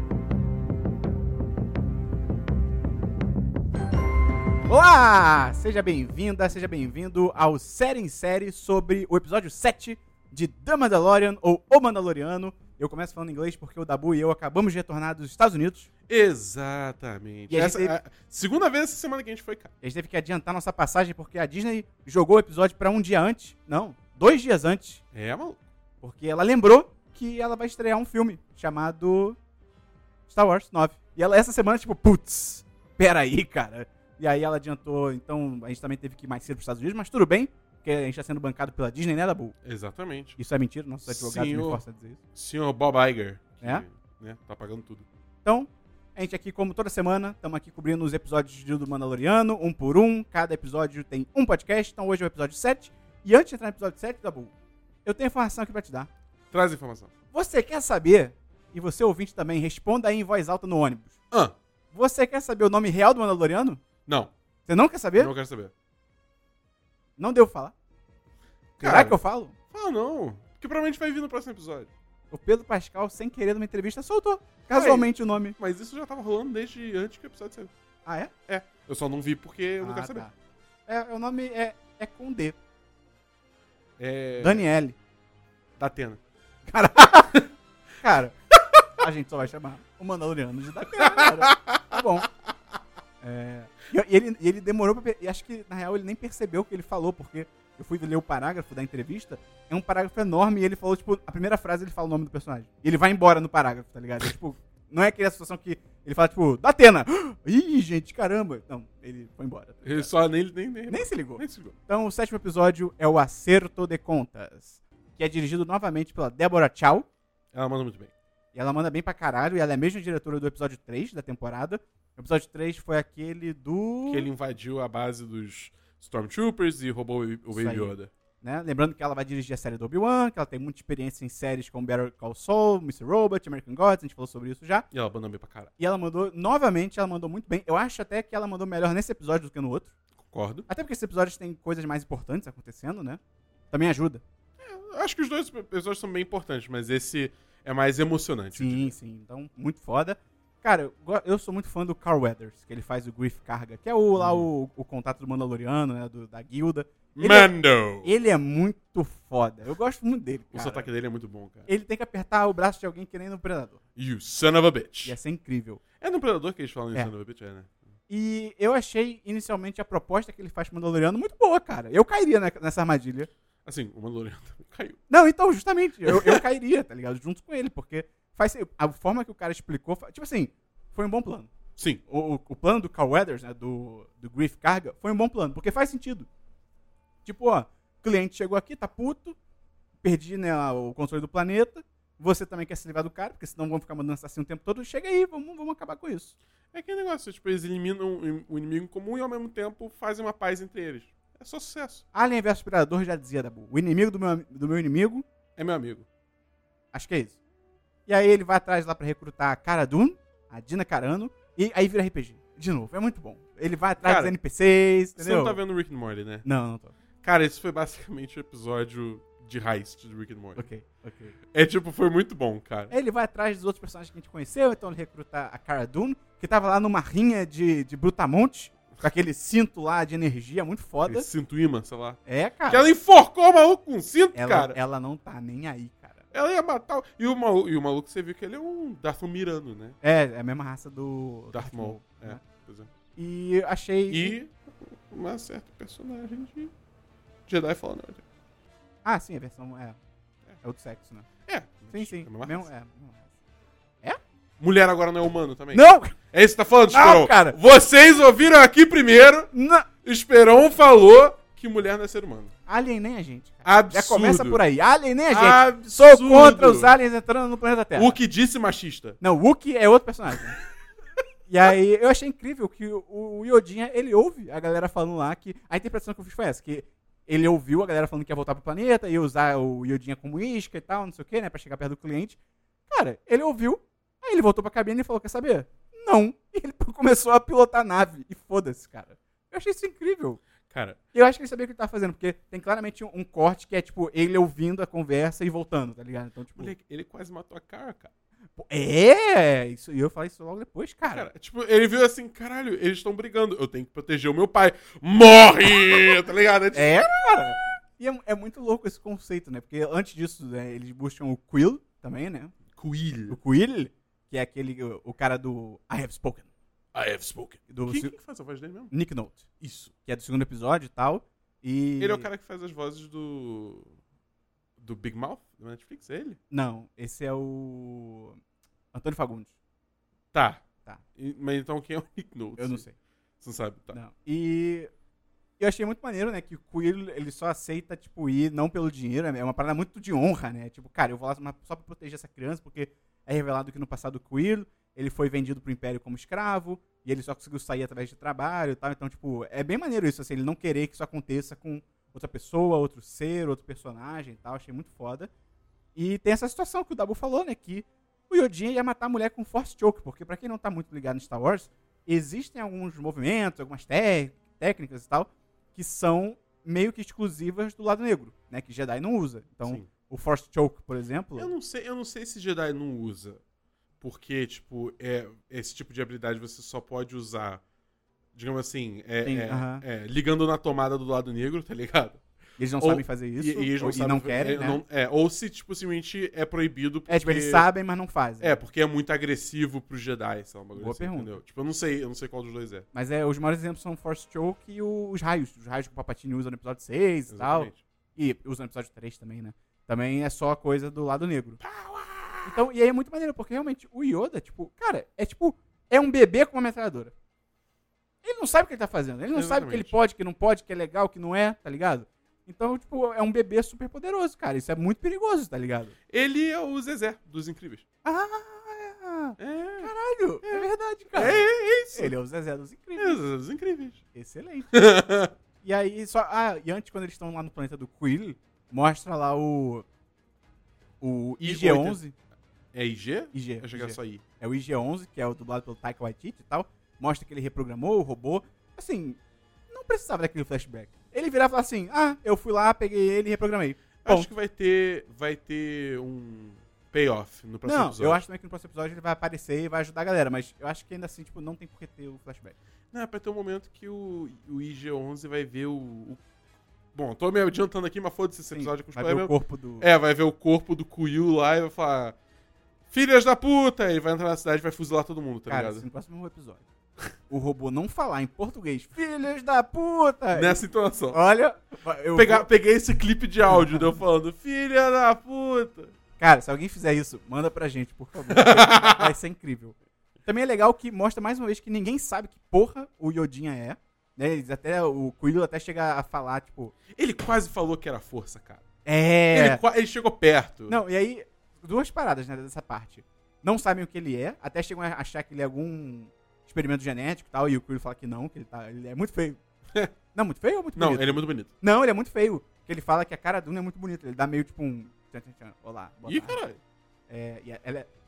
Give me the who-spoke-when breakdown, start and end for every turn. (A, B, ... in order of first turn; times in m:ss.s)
0:04.7-0:15.9 A
0:16.1-0:19.7 B
0:17.5-0:18.0 A
0:19.8-0:25.0 A
0:25.1-0:25.6 B
0:26.0-0:29.4 A
0:30.3-0:39.6 A
0:39.6-0:40.4 B
0:40.4-0:42.2 A
0:41.1-0:41.8 B
0:42.4-0:45.1 B
0:45.4-0:54.5 A
0:55.0-0:56.1 A
0:56.5-0:57.1 B
0:57.3-1:01.2 A
1:01.9-1:03.8 A
1:04.1-1:04.3 B
1:04.7-1:05.3 A
1:05.2-1:05.7 B
1:07.2-1:07.7 A
1:08.8-1:09.2 B
1:08.8-1:09.6 A
1:09.7-1:11.9 B
1:12.3-1:15.6 A
1:14.7-1:17.7 B
1:18.0-1:18.3 A
1:18.5-1:20.3 B
1:19.8-1:20.3 A
1:20.9-1:22.6 A
1:24.0-1:24.7 B
1:24.4-1:25.0 A
1:25.8-1:26.2 B
1:26.7-1:27.4 A
1:28.0-1:28.4 A
1:28.9-1:32.3 A
1:31.0-1:32.2 B
1:33.2-1:50.1 A
1:49.8-1:51.8 B
1:50.9-1:57.1 A
1:57.5-1:58.1 B
1:58.5-2:04.3 A
2:04.1-2:08.1 B
2:07.5-2:14.9 A
2:14.9-2:15.7 B
2:15.8-2:19.9 A
2:20.2-2:20.7 B
2:20.7-2:23.2 A
2:23.7-2:24.2 A
2:24.6-2:29.0 B
2:28.5-2:37.5 A
2:34.2-2:34.5 B
2:37.2-2:38.1 B
2:38.0-2:40.9 A
2:40.5-2:41.7 B
2:41.7-2:43.8 A
2:44.0-2:45.2 B
2:45.0-2:45.8 A
2:46.0-2:47.8 B
2:48.1-2:53.3 A
2:53.6-2:55.0 B
2:55.1-3:01.5 A
2:56.1-2:56.4 B
3:02.1-3:06.3 A
3:07.2-3:09.4 A
3:10.0-3:16.4 A
3:16.7-3:22.0 B
3:22.1-3:25.2 A
3:25.6-3:26.1 B
3:26.9-3:27.4 A
3:28.1-3:35.6 A
3:34.0-3:34.4 B
3:35.2-3:36.4 B
3:36.4-3:36.9 A
3:37.2-3:40.7 B
3:40.6-3:41.4 A
3:41.5-3:42.9 B
3:42.9-3:51.3 A
3:51.1-3:54.8 B
3:52.3-3:52.9 A
3:54.4-3:56.3 A
3:56.3-4:00.0 B
4:00.0-4:02.4 A
4:01.5-4:02.9 B
4:03.2-4:04.4 A
4:04.1-4:06.7 B
4:07.5-4:08.2 B
4:09.0-4:10.0 A
4:10.6-4:11.3 A
4:11.5-4:12.7 B
4:11.9-4:13.3 A
4:14.6-4:19.5 B
4:15.7-4:16.2 A
4:16.9-4:17.6 A
4:19.5-4:19.9 A
4:20.0-4:22.5 B
4:22.7-4:28.2 A
4:23.6-4:24.6 B
4:25.3-4:26.9 B
4:28.0-4:29.2 B
4:29.2-4:30.6 A
4:31.5-4:42.4 A
4:42.9-4:50.4 A
4:50.7-4:51.0 B
4:51.1-4:56.7 A
4:56.6-4:58.1 B
4:58.6-5:01.3 A
5:01.0-5:07.0 B
5:06.7-5:12.6 A
5:12.7-5:13.4 B
5:13.3-5:16.5 A
5:16.9-5:18.9 B
5:17.7-5:18.1 A
5:18.9-5:19.5 A
5:19.6-5:19.9 B
5:20.0-5:22.3 A
5:22.0-5:23.9 B
5:24.8-5:26.4 B
5:26.5-5:28.4 A
5:28.9-5:29.5 A
5:30.3-5:30.6 B
5:31.2-5:32.8 B
5:32.6-5:33.0 A
5:33.4-5:34.0 B
5:33.9-5:34.9 A
5:35.6-5:55.3 A
5:56.0-6:11.5 A
6:11.4-6:13.4 B
6:14.0-6:17.6 B
6:18.3-6:22.2 B
6:19.2-6:19.8 A
6:22.6-6:24.8 A
6:22.8-6:27.7 B
6:27.1-6:28.6 A
6:28.4-6:32.9 B
6:30.8-6:31.4 A
6:32.9-6:41.6 A
6:37.3-6:37.8 B
6:41.6-6:42.7 B
6:42.4-6:47.1 A
6:48.2-6:56.0 A
6:49.3-6:50.0 B
6:56.1-6:57.8 B
6:58.0-7:03.2 A
6:59.4-6:59.9 B
7:00.4-7:02.2 B
7:03.0-7:04.0 B
7:04.1-7:04.7 A
7:04.7-7:05.3 B
7:05.6-7:09.9 A
7:11.0-7:12.1 A
7:11.4-7:12.0 B
7:12.7-7:14.2 B
7:13.3-7:19.2 A
7:19.7-7:24.3 A
7:24.0-7:28.2 B
7:27.6-7:32.6 A
7:32.9-7:36.2 B
7:36.9-7:42.2 B
7:38.5-7:39.9 A
7:42.9-7:45.8 B
7:45.5-7:46.6 A
7:47.3-7:52.5 A
7:50.3-7:51.2 B
7:52.2-7:56.0 B
7:53.5-7:54.0 A
7:56.2-8:06.8 A
7:58.3-7:59.1 B
8:06.9-8:08.6 B
8:08.8-8:09.6 A
8:09.3-8:10.8 B
8:10.7-8:19.4 A
8:20.1-8:26.4 A
8:20.8-8:21.5 B
8:26.1-8:26.6 B
8:27.1-8:27.9 A